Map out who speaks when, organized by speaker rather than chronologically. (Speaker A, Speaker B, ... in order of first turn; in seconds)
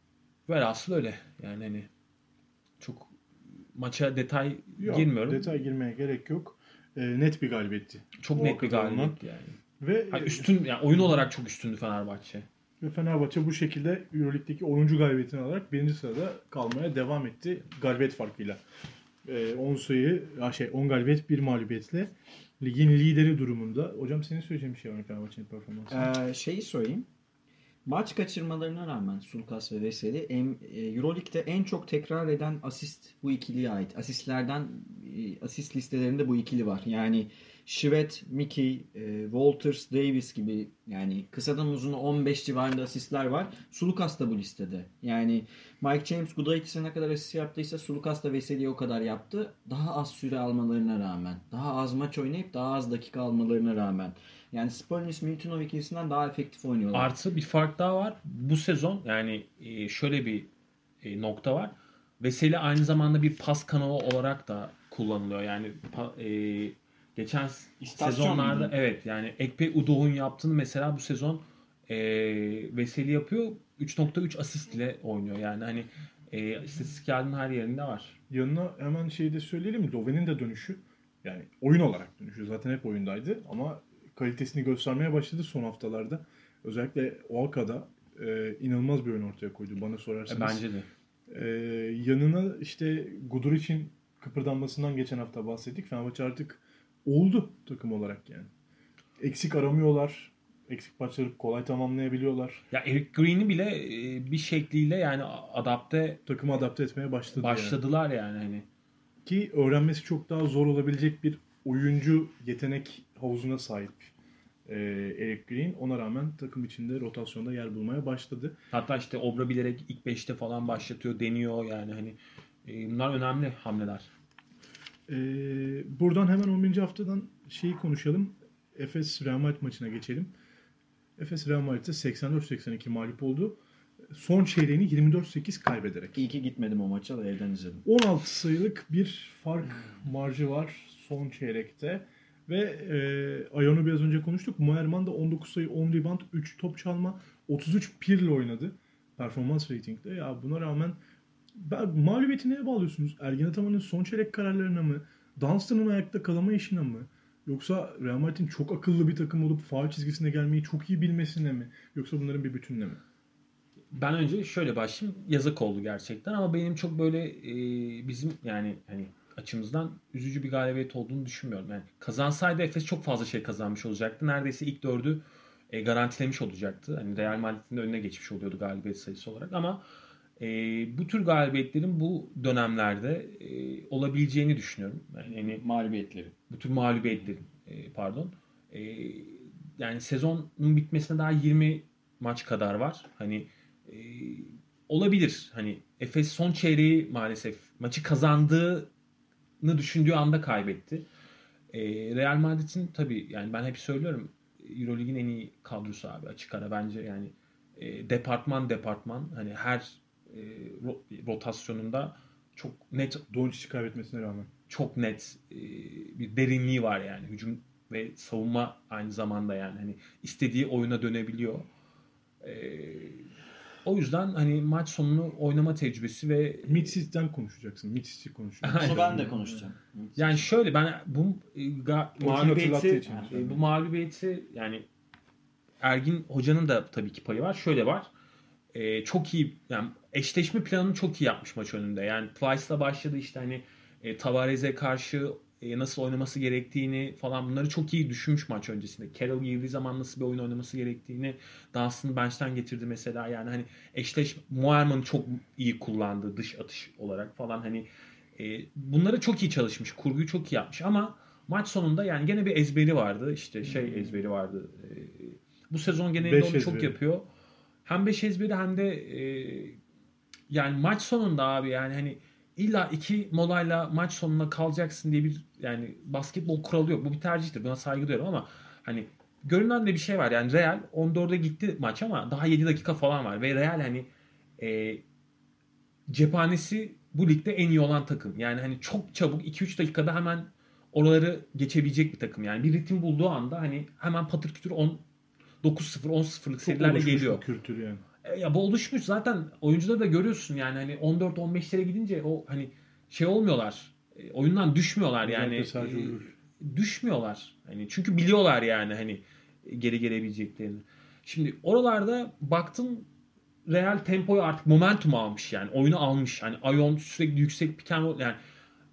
Speaker A: 0.5-1.9, 2.8-3.1, 3.7-5.5, 8.2-9.6, 10.1-12.5, 56.9-60.5, 61.0-78.2, 90.3-90.9, 102.7-106.2, 107.3-108.7, 118.7-124.1, 163.9-179.8, 180.4-185.6, 186.5-198.9, 199.6-201.1, 201.7-213.2, 214.7-221.7, 222.4-223.3, 223.8-226.9, 228.6-229.3, 230.2-234.9, 235.8-238.1, 238.7-267.3, 267.8-269.8, 270.5-285.0, 286.1-295.0, 295.6-297.4, 298.2-313.1, 313.6-318.4
Speaker B: 4.8-9.2, 9.8-10.5, 12.8-18.6, 19.2-26.1, 78.3-90.6, 91.3-98.5, 99.2-102.6, 106.2-107.8, 109.2-114.1, 114.7-118.6, 125.1-130.3, 131.2-133.6, 134.1-136.2, 137.8-151.0, 151.6-163.0, 213.3-214.5, 226.6-229.3, 232.2-233.6, 266.2-266.9, 296.6-298.0, 305.2-306.3
Speaker C: 25.9-27.1, 27.9-57.1, 67.9-68.7, 136.1-137.8, 185.3-186.3, 228.8-230.5